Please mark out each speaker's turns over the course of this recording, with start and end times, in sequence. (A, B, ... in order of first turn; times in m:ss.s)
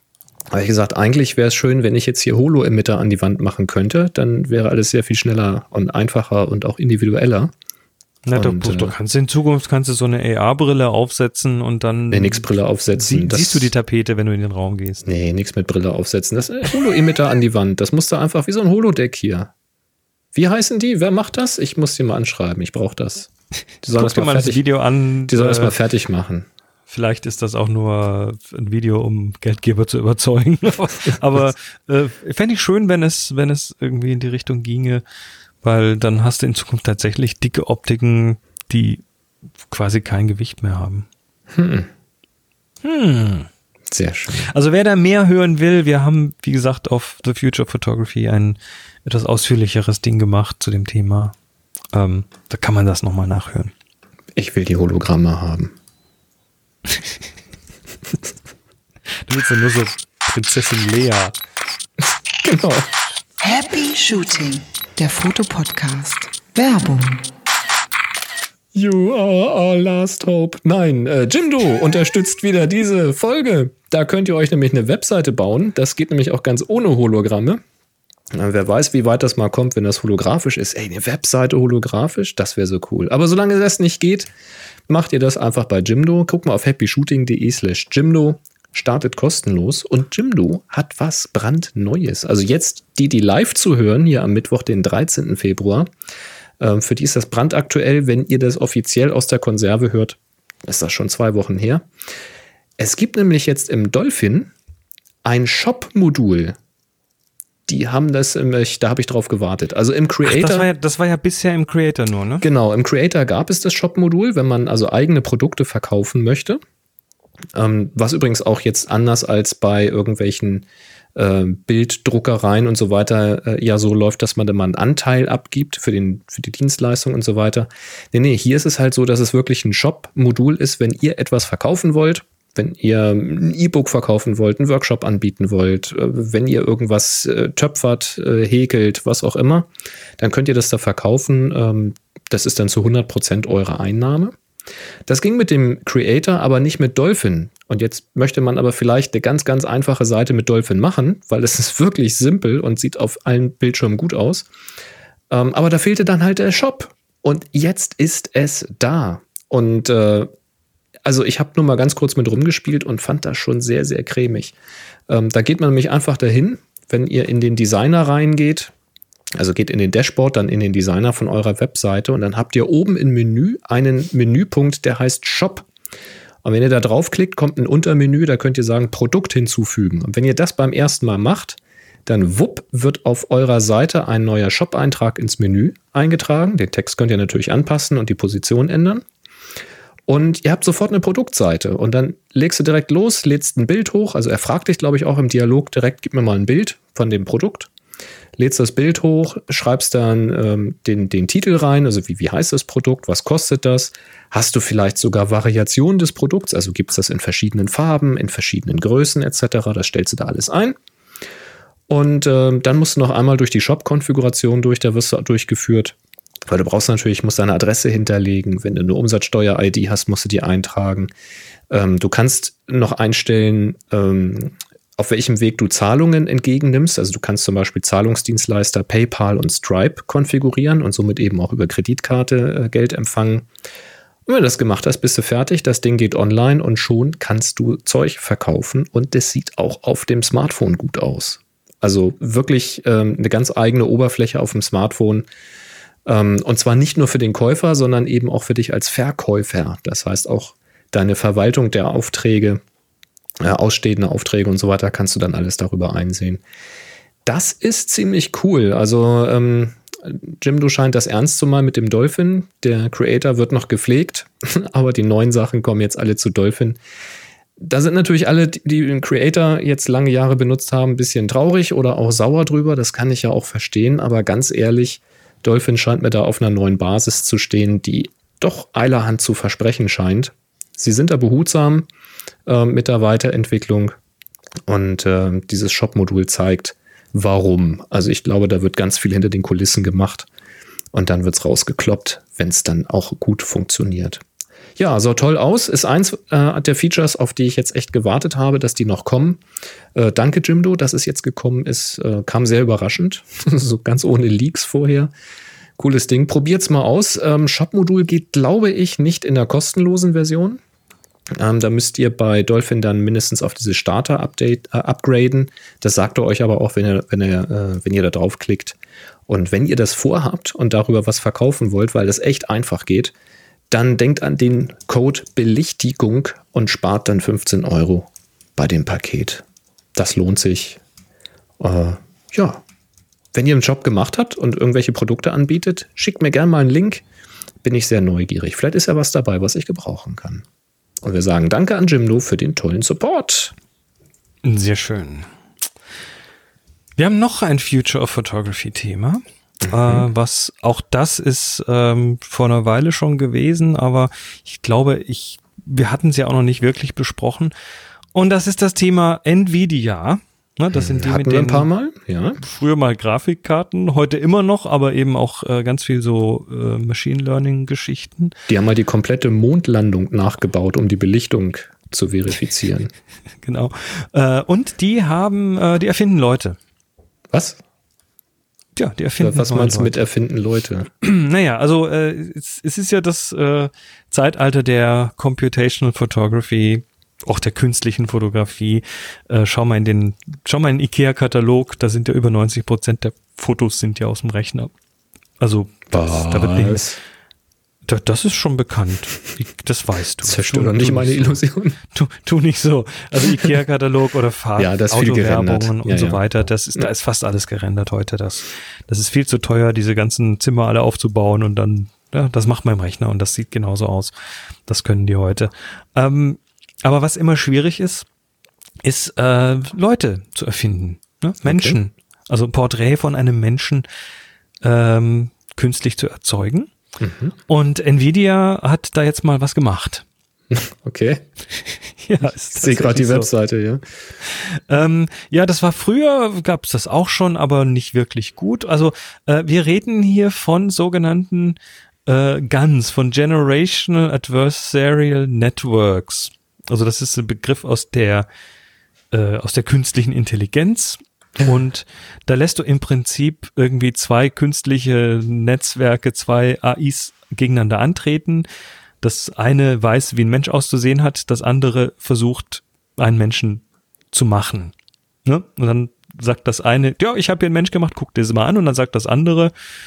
0:00.5-0:07.5 A
0:08.3-0:15.1 B
0:08.4-0:08.9 A
0:12.1-0:13.7 A
0:15.0-0:19.5 A
0:20.3-0:23.3 A
0:23.8-0:24.6 A
0:23.9-0:25.8 B
0:25.3-0:26.5 A
0:26.9-0:35.0 B
0:35.6-0:39.0 B
0:39.7-0:41.1 B
0:41.5-0:41.9 A
0:42.8-0:43.5 B
0:43.9-0:44.5 A
0:44.3-0:51.4 B
0:51.9-0:53.7 B
0:54.4-0:55.7 A
0:59.2-1:01.4 B
1:02.4-1:02.9 A
1:03.4-1:07.3 C
1:08.7-1:17.6 A
1:18.3-1:24.3 A
1:24.9-1:35.9 A
1:36.6-1:41.9 A
1:42.8-1:44.5 A
1:45.2-1:46.6 A
1:47.7-1:50.7 A
1:50.2-1:52.5 B
1:52.4-1:56.6 A
1:57.6-2:19.7 A
2:20.2-2:24.4 A
2:25.1-2:34.5 A
2:35.3-2:40.3 A
2:41.0-2:44.5 A
2:45.1-2:48.7 A
2:49.4-2:55.7 A
2:56.4-3:09.0 A
3:10.1-3:17.7 A
3:18.4-3:30.8 A
3:31.9-3:36.0 A
3:36.5-3:41.1 A
3:41.7-3:53.5 A
3:54.3-4:05.3 A
4:06.1-4:12.6 A
4:13.4-4:16.4 A
4:17.3-4:26.8 A
4:27.6-4:41.9 A
4:42.5-4:44.0 A
4:44.7-4:50.3 A
4:50.9-4:54.2 A
4:54.8-4:59.4 A
5:00.0-5:05.1 A
5:05.8-5:10.6 A
5:11.4-5:18.8 A
5:19.3-5:23.1 A
5:23.7-5:29.4 A
5:30.0-5:30.8 A
5:31.6-5:32.6 A
5:33.3-5:37.0 A
5:37.6-5:40.4 A
5:41.0-5:43.5 A
5:44.4-5:45.3 B
5:47.0-5:57.5 B
5:49.6-5:50.1 A
5:58.1-6:01.7 B
6:00.7-6:02.4 A
6:02.4-6:08.4 B
6:08.5-6:12.9 A
6:13.4-6:16.6 B
6:17.3-6:17.6 A
6:18.8-6:20.0 B
6:19.2-6:20.9 A
6:21.0-6:34.7 B
6:35.4-6:36.9 B
6:35.9-6:37.0 A
6:37.9-6:41.4 B
6:40.2-6:41.8 A
6:41.9-6:58.1 B
6:44.6-6:46.2 A
6:58.8-7:03.8 B
7:01.4-7:01.8 A
7:04.6-7:06.7 B
7:07.0-7:07.4 A
7:07.5-7:10.0 B
7:10.5-7:11.2 A
7:12.0-7:13.3 B
7:12.6-7:13.8 A
7:14.2-7:28.3 B
7:29.1-7:38.5 B
7:39.0-7:44.7 B
7:45.2-7:49.5 B